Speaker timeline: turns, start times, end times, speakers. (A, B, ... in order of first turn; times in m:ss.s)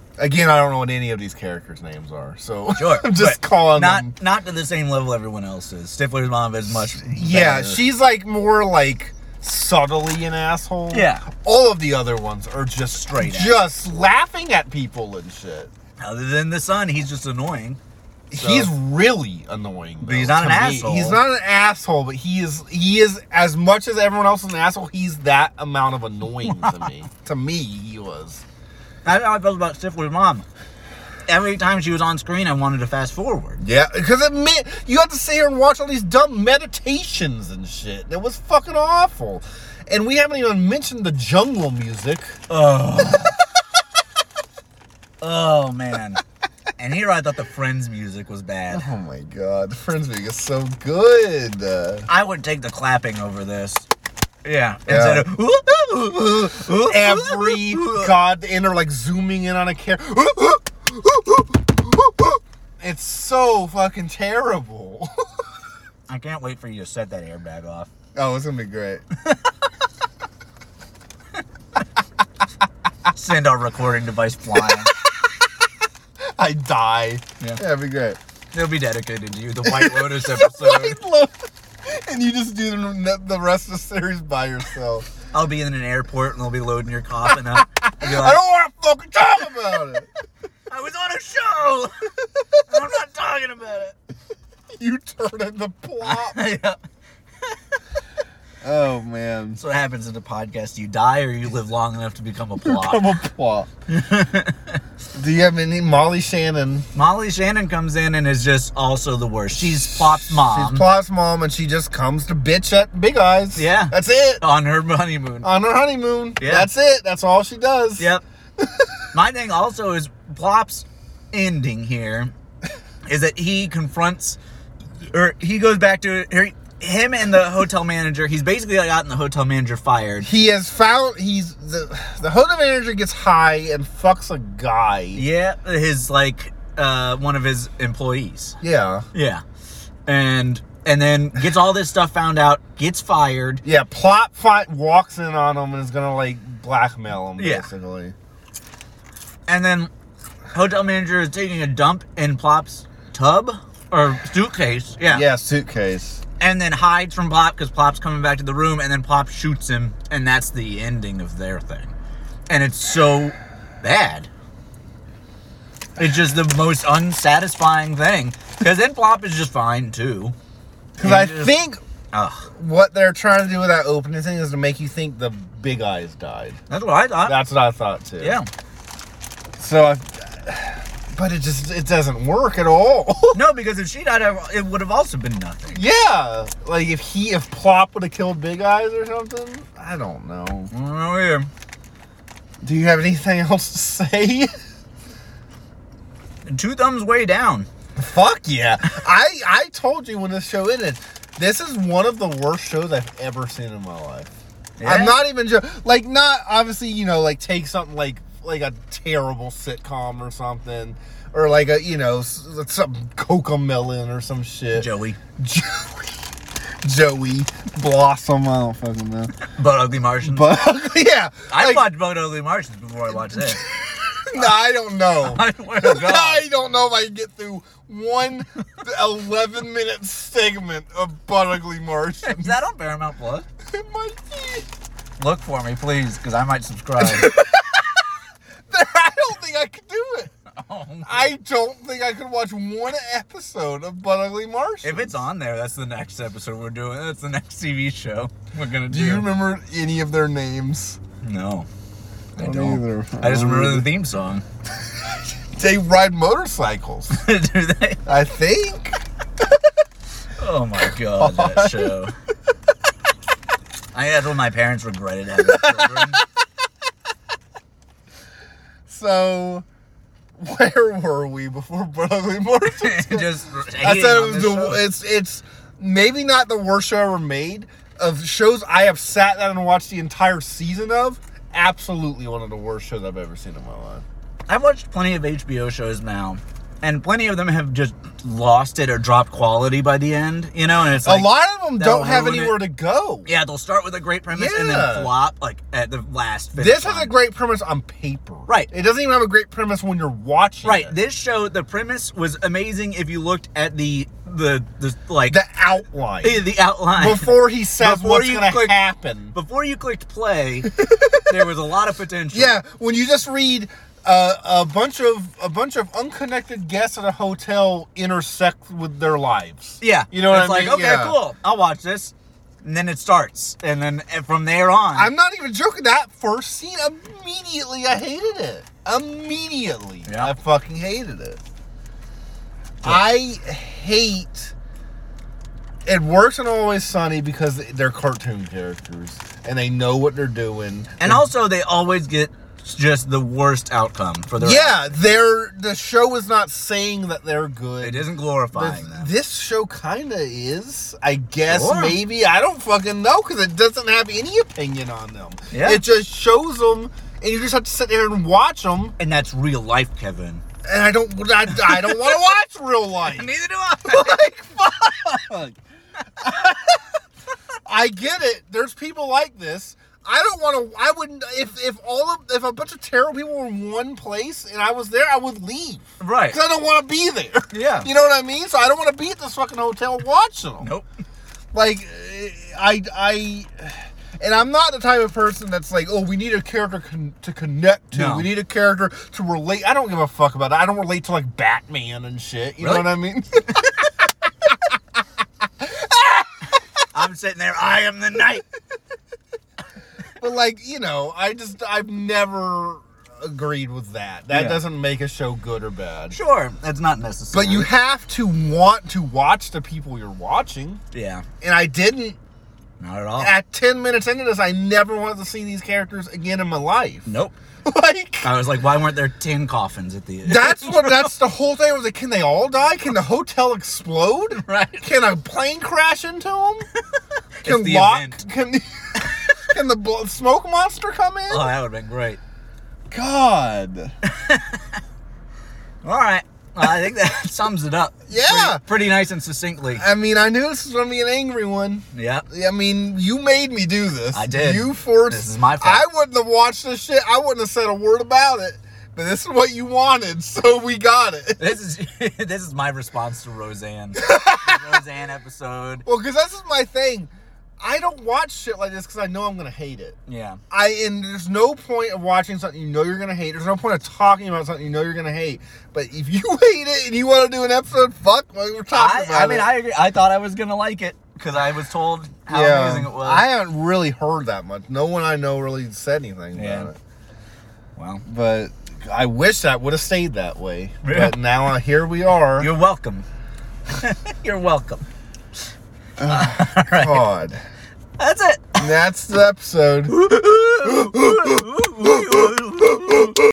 0:00.2-0:04.1 A
0:02.8-0:07.8 B
0:07.0-0:15.7 A
0:10.9-0:11.2 B
0:12.9-0:13.6 B
0:16.0-0:17.8 B
0:18.3-0:28.4 A
0:18.4-0:18.7 B
0:20.0-0:21.2 B
0:26.4-0:27.0 B
0:29.0-0:30.4 B
0:31.3-0:33.6 B
0:33.6-0:42.4 A
0:42.5-0:43.4 B
0:43.0-0:43.3 A
0:45.2-0:46.2 B
0:46.8-0:48.9 B
0:48.7-0:52.1 A
0:52.1-0:53.9 B
0:54.4-0:58.1 B
0:54.9-0:55.3 A
0:56.8-1:05.2 A
1:06.1-1:07.9 B
1:08.1-1:09.0 A
1:09.2-1:09.5 B
1:13.1-1:14.9 B
1:16.4-1:18.2 A
1:18.5-1:21.0 B
1:19.6-1:25.1 A
1:25.3-1:28.4 B
1:27.3-1:30.1 A
1:30.7-1:31.9 B
1:32.2-1:32.7 A
1:32.7-1:33.9 B
1:34.8-1:36.5 A
1:36.0-1:36.8 B
1:37.4-1:37.8 B
1:38.6-1:39.6 A
1:39.6-1:43.1 B
1:42.6-1:43.7 A
1:43.9-1:44.8 B
1:45.1-1:46.9 A
1:46.9-1:50.8 B
1:49.6-1:54.4 A
1:53.6-1:55.5 B
1:55.4-1:59.0 A
1:56.4-1:56.7 B
1:59.1-2:02.3 B
2:03.0-2:04.4 B
2:05.1-2:10.3 B
2:10.2-2:15.2 A
2:15.2-2:18.6 B
2:18.6-2:19.0 A
2:19.1-2:19.4 B
2:20.1-2:23.6 B
2:23.6-2:28.1 A
2:27.4-2:27.7 B
2:29.5-2:29.9 B
2:30.5-2:35.2 B
2:35.1-2:36.2 A
2:36.4-2:41.9 B
2:42.5-2:44.3 B
2:46.0-2:50.3 B
2:51.0-2:51.8 A
2:51.0-2:51.5 B
2:52.1-2:52.5 B
2:52.5-2:56.6 A
2:56.7-2:57.4 B
2:57.2-2:58.4 A
2:58.2-2:58.5 B
2:59.6-3:03.4 A
3:03.3-3:05.8 B
3:05.7-3:10.7 A
3:10.7-3:11.5 B
3:12.6-3:14.5 A
3:16.4-3:17.7 B
3:18.0-3:24.3 A
3:24.8-3:25.1 B
3:24.8-3:36.2 A
3:34.7-3:35.2 B
3:36.8-3:39.3 A
3:39.5-3:40.5 B
3:40.2-3:41.9 A
3:41.5-3:43.6 B
3:43.2-3:52.6 A
3:45.2-3:46.4 B
3:52.2-3:53.4 B
3:53.6-3:54.6 A
3:55.2-3:57.3 B
3:57.0-3:58.1 A
3:58.7-4:00.3 A
4:00.5-4:01.3 B
4:01.0-4:05.2 A
4:04.8-4:09.3 B
4:08.9-4:11.0 A
4:11.2-4:11.7 B
4:12.4-4:14.4 B
4:12.4-4:13.9 A
4:15.5-4:17.2 A
4:17.1-4:18.0 B
4:18.0-4:19.0 A
4:20.4-4:22.1 B
4:21.2-4:21.9 A
4:23.9-4:26.2 B
4:25.4-4:26.2 A
4:28.9-4:29.6 A
4:30.4-4:33.3 A
4:32.8-4:34.8 B
4:33.8-4:44.0 A
4:44.5-4:52.6 B
4:51.0-4:53.3 A
4:53.2-4:57.1 B
4:54.3-4:55.1 A
4:56.6-5:01.0 A
5:00.6-5:05.4 B
5:05.3-5:09.3 A
5:06.2-5:08.7 B
5:09.3-5:10.7 B
5:10.7-5:11.3 A
5:11.2-5:12.6 B
5:12.3-5:21.2 A
5:19.8-5:25.1 B
5:24.9-5:31.4 A
5:32.8-5:34.5 A
5:35.8-5:41.2 A
5:41.0-5:45.0 B
5:44.4-5:59.0 A
5:47.8-5:49.1 B
5:51.5-5:52.0 B
5:55.5-5:55.8 B
5:59.0-6:00.4 B
6:00.6-6:05.6 A
6:01.5-6:02.2 B
6:03.0-6:04.2 B
6:06.2-6:06.9 A
6:07.6-6:20.7 A
6:16.0-6:16.4 B
6:17.5-6:17.9 B
6:21.5-6:34.7 A
6:27.9-6:28.3 B
6:32.6-6:32.9 B
6:35.6-6:36.5 A
6:36.9-6:38.4 B
6:40.2-6:46.2 A
6:44.3-6:44.6 B
6:46.1-6:47.7 B
6:47.3-6:50.8 A
6:50.9-6:51.2 B
6:51.4-6:52.2 A
6:52.8-6:53.3 B
6:53.2-6:57.1 A
6:57.0-6:57.3 B
6:57.6-6:58.3 A
6:58.2-7:01.1 B
7:00.2-7:06.7 A
7:04.3-7:04.8 B
7:07.4-7:08.2 B
7:07.4-7:11.5 A
7:11.3-7:12.2 B
7:12.9-7:13.9 A
7:14.0-7:14.8 B
7:15.8-7:19.8 B
7:18.1-7:18.6 A
7:19.8-7:31.5 A
7:21.9-7:22.2 B
7:24.1-7:25.8 B
7:31.4-7:35.8 B
7:34.0-7:34.7 A
7:35.8-7:40.0 A
7:40.1-7:40.4 B
7:40.5-7:49.5 A
7:48.7-7:53.2 B
7:52.3-7:56.8 A
7:56.3-7:56.7 B
7:57.8-7:58.0 B
7:58.0-8:02.5 A
8:00.8-8:01.2 B
8:02.4-8:03.0 B
8:03.7-8:04.8 B
8:06.0-8:07.4 A
8:06.0-8:07.0 B
8:08.0-8:08.6 B
8:08.6-8:10.0 A
8:09.9-8:13.2 B
8:10.6-8:11.4 A